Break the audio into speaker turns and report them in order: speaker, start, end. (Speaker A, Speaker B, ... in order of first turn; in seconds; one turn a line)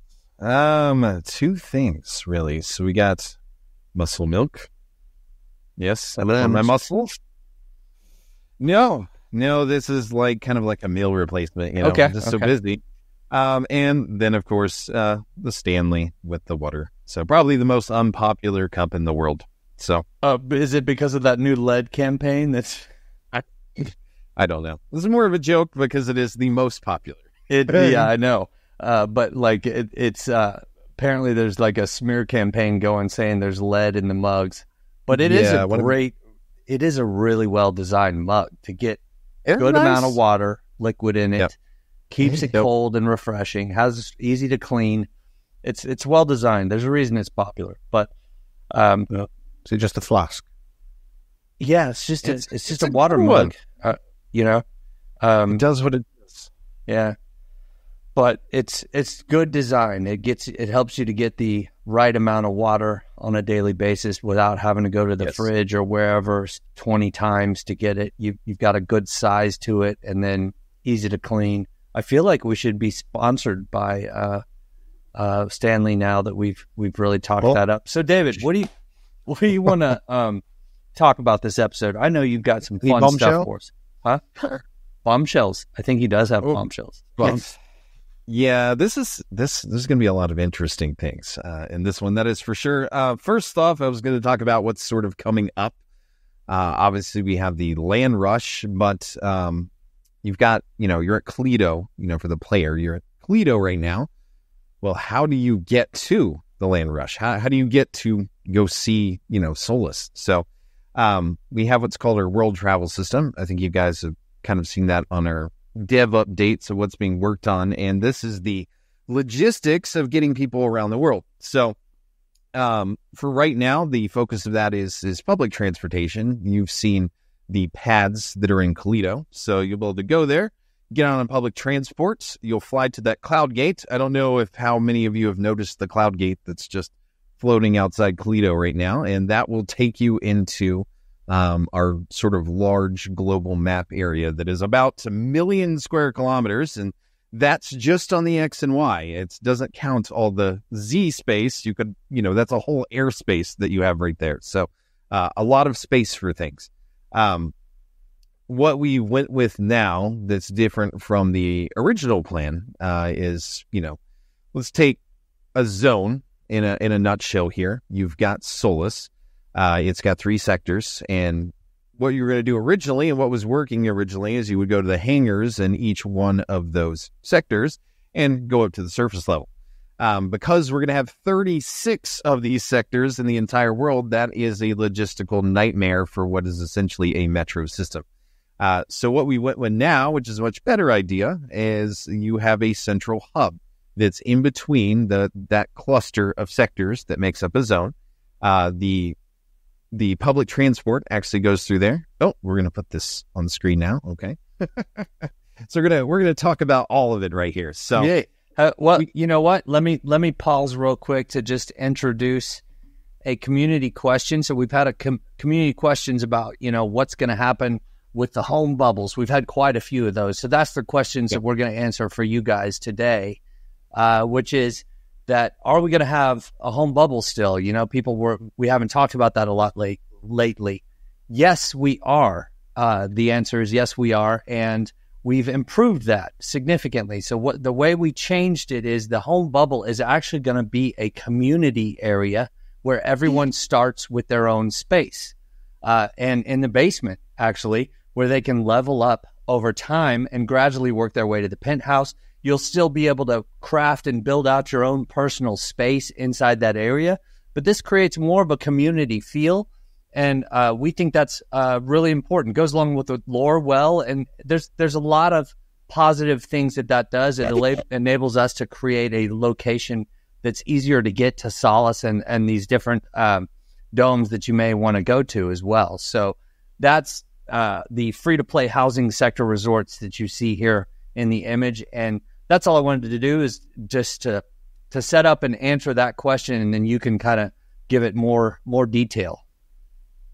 Speaker A: 0.4-3.4
Speaker A: 4.0-4.7
Speaker A: 5.8-7.2
Speaker B: 6.2-6.8
Speaker A: 8.6-20.1
Speaker C: 11.8-12.5
Speaker C: 20.2-22.9
Speaker A: 23.3-28.1
Speaker C: 27.5-36.1
Speaker A: 35.1-35.9
Speaker C: 36.7-39.0
Speaker A: 39.5-40.2
Speaker C: 39.6-41.5
Speaker C: 42.1-45.1
Speaker A: 42.2-42.7
Speaker C: 45.6-48.1
Speaker C: 48.7-49.1
Speaker B: 49.1-50.5
Speaker C: 51.6-54.6
Speaker A: 52.2-53.5
Speaker C: 55.2-55.6
Speaker A: 55.5-56.5
Speaker C: 56.9-57.2
Speaker C: 58.1-74.4
Speaker A: 65.2-65.5
Speaker C: 75.2-78.7
Speaker C: 79.3-80.4
Speaker C: 81.0-84.2
Speaker A: 82.8-83.5
Speaker C: 85.0-87.5
Speaker A: 87.2-87.5
Speaker A: 88.3-95.8
Speaker A: 96.5-99.7
Speaker A: 100.2-104.1
Speaker A: 104.8-121.8
Speaker A: 122.5-157.5
Speaker A: 158.5-164.0
Speaker A: 164.5-165.0
Speaker A: 165.6-188.0
Speaker A: 188.6-199.2
Speaker A: 199.9-208.1
Speaker C: 207.9-212.6
Speaker C: 213.2-223.4
Speaker C: 223.9-289.4